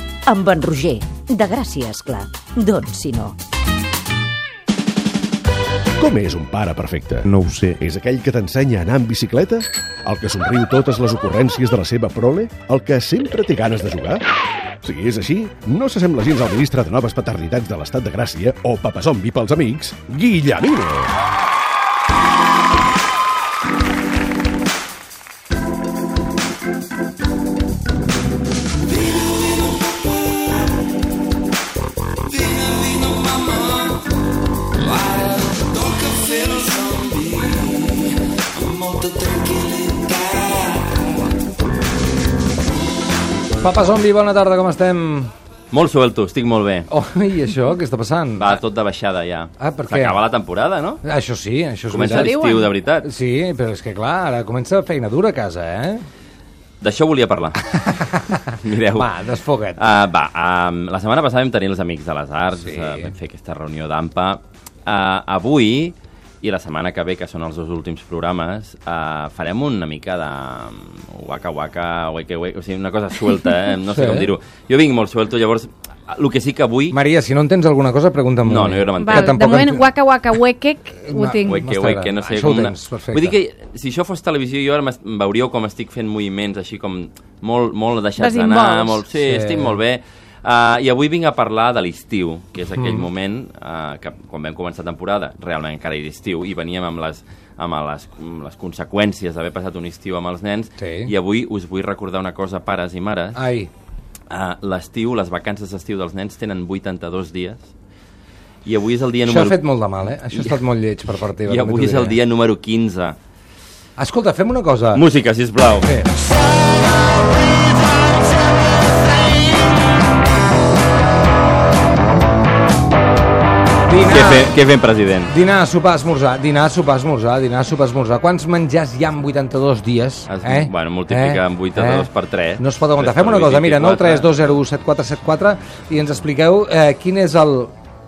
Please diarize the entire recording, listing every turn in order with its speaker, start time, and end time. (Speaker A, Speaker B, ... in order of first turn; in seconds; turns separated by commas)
Speaker A: 0.2-3.3, Speaker B: 6.0-14.2, Speaker B: 14.8-21.1, Speaker C: 32.4-33.5, Speaker C: 35.0-37.5, Speaker C: 38.5-40.5, Speaker D: 43.6-45.3, Speaker C: 45.7-46.9, Speaker D: 46.9-48.6, Speaker C: 48.4-51.0, Speaker D: 49.6-50.3, Speaker D: 51.0-52.5, Speaker C: 51.9-53.1, Speaker E: 52.0-52.7, Speaker D: 53.0-56.0, Speaker C: 56.8-57.7, Speaker D: 57.9-59.8, Speaker C: 58.5-59.1, Speaker C: 59.8-77.0, Speaker D: 62.5-63.1, Speaker D: 73.9-74.3, Speaker D: 76.9-79.8, Speaker C: 78.4-79.4, Speaker E: 79.0-81.6, Speaker D: 81.0-83.3, Speaker C: 81.4-103.4, Speaker E: 88.2-89.0, Speaker D: 89.1-89.8, Speaker D: 92.7-93.1, Speaker D: 100.8-101.1, Speaker D: 103.3-103.7, Speaker C: 104.3-107.7, Speaker C: 108.6-110.6, Speaker D: 109.2-112.2, Speaker C: 111.4-113.2, Speaker D: 114.0-115.0, Speaker C: 114.9-115.9, Speaker D: 115.8-116.1, Speaker D: 123.9-124.6, Speaker C: 124.0-125.3, Speaker D: 125.3-132.1, Speaker C: 130.3-134.5, Speaker D: 132.6-137.7